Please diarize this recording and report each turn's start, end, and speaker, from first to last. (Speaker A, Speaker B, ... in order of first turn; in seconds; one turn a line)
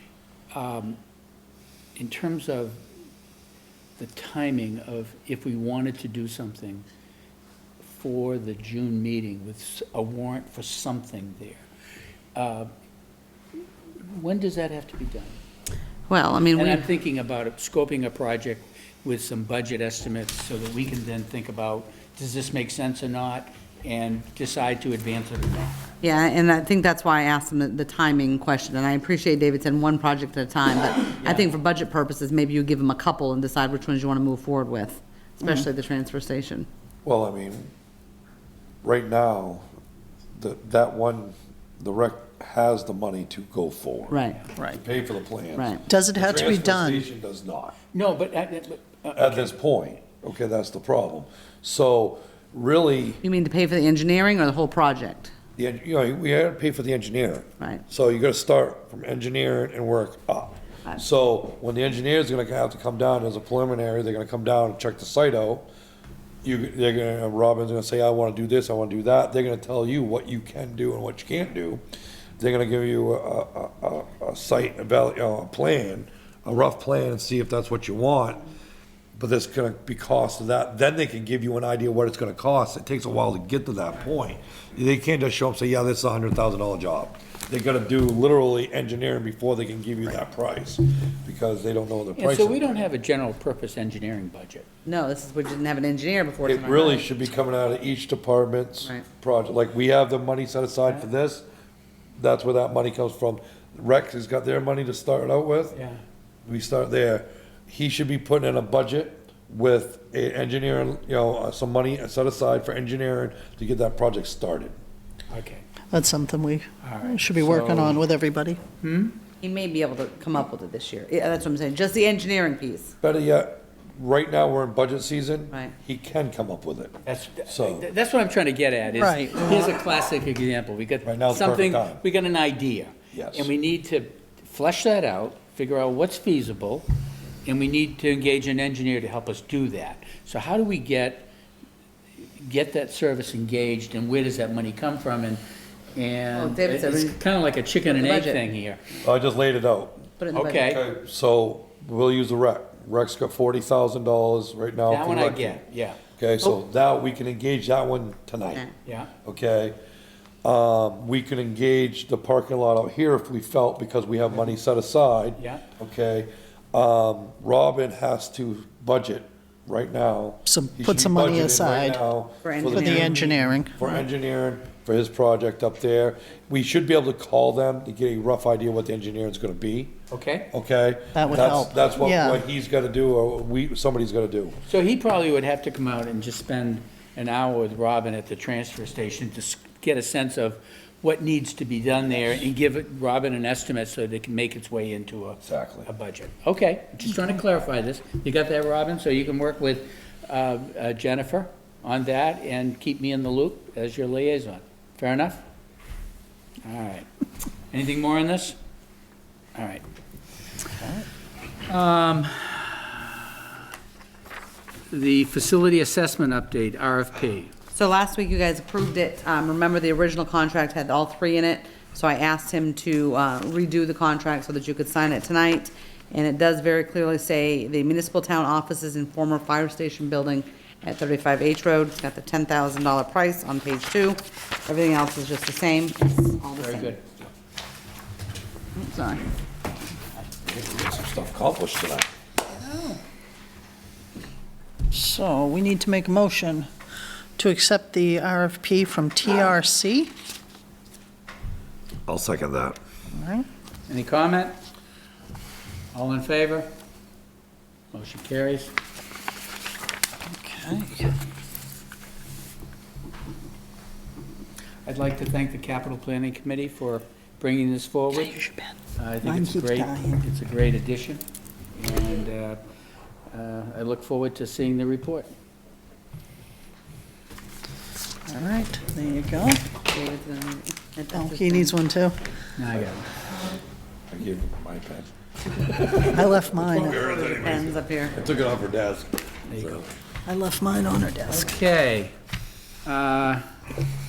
Speaker A: 0.5-1.0
Speaker A: 1.9-2.8
Speaker A: 4.0-6.8
Speaker A: 7.8-11.6
Speaker A: 12.3-12.7
Speaker A: 14.0-15.4
Speaker B: 16.1-16.9
Speaker A: 16.5-25.8
Speaker B: 26.0-36.7
Speaker A: 31.2-31.5
Speaker C: 37.0-37.7
Speaker C: 38.8-39.6
Speaker C: 40.4-47.7
Speaker B: 44.1-44.4
Speaker B: 45.5-45.8
Speaker D: 45.9-47.0
Speaker A: 47.9-49.5
Speaker C: 49.1-53.2
Speaker B: 53.2-55.3
Speaker C: 55.6-65.6
Speaker C: 66.4-71.8
Speaker C: 72.4-78.5
Speaker C: 79.2-92.7
Speaker A: 92.2-94.7
Speaker B: 94.8-97.1
Speaker C: 96.4-101.4
Speaker C: 102.2-105.8
Speaker A: 105.7-106.0
Speaker C: 106.5-114.7
Speaker A: 115.3-115.6
Speaker D: 115.9-118.6
Speaker A: 116.8-118.0
Speaker A: 118.8-119.2
Speaker B: 119.4-122.9
Speaker C: 123.0-127.0
Speaker A: 127.0-136.9
Speaker C: 127.5-127.9
Speaker D: 128.9-129.7
Speaker C: 131.0-132.0
Speaker C: 133.1-133.5
Speaker A: 137.4-141.3
Speaker A: 142.4-145.4
Speaker A: 145.9-148.8
Speaker B: 146.3-147.2
Speaker B: 147.8-148.4
Speaker C: 149.0-155.6
Speaker B: 150.2-150.7
Speaker A: 150.3-150.8
Speaker A: 154.9-156.0
Speaker C: 156.2-158.6
Speaker A: 158.8-159.1
Speaker C: 159.2-159.8
Speaker C: 160.4-179.9
Speaker A: 164.3-164.5
Speaker A: 165.4-165.7
Speaker D: 170.4-172.0
Speaker B: 172.4-173.1
Speaker D: 172.7-174.0
Speaker A: 180.1-180.5
Speaker C: 180.5-184.6
Speaker D: 181.1-182.4
Speaker A: 184.7-205.4
Speaker C: 195.4-195.9
Speaker A: 206.6-207.1
Speaker A: 207.7-208.6
Speaker A: 209.5-209.8
Speaker A: 211.7-213.5
Speaker A: 214.9-217.5
Speaker B: 217.7-237.0
Speaker A: 236.6-237.0
Speaker B: 238.8-239.3
Speaker C: 240.4-242.1
Speaker A: 242.5-243.0
Speaker D: 244.9-246.7
Speaker D: 247.4-250.1
Speaker C: 252.1-252.8
Speaker D: 253.1-253.4
Speaker A: 253.9-254.6
Speaker A: 255.9-256.7
Speaker A: 257.9-258.8
Speaker D: 260.3-261.1
Speaker A: 264.9-268.4
Speaker D: 268.1-270.2
Speaker A: 268.9-272.6
Speaker A: 273.3-275.3
Speaker D: 278.3-279.7
Speaker B: 279.9-281.8
Speaker D: 281.1-282.2
Speaker A: 282.6-283.1
Speaker C: 284.1-289.9
Speaker D: 286.1-287.0
Speaker B: 287.0-288.2
Speaker A: 289.5-289.8
Speaker D: 290.2-291.6
Speaker A: 291.3-292.1
Speaker A: 292.8-293.5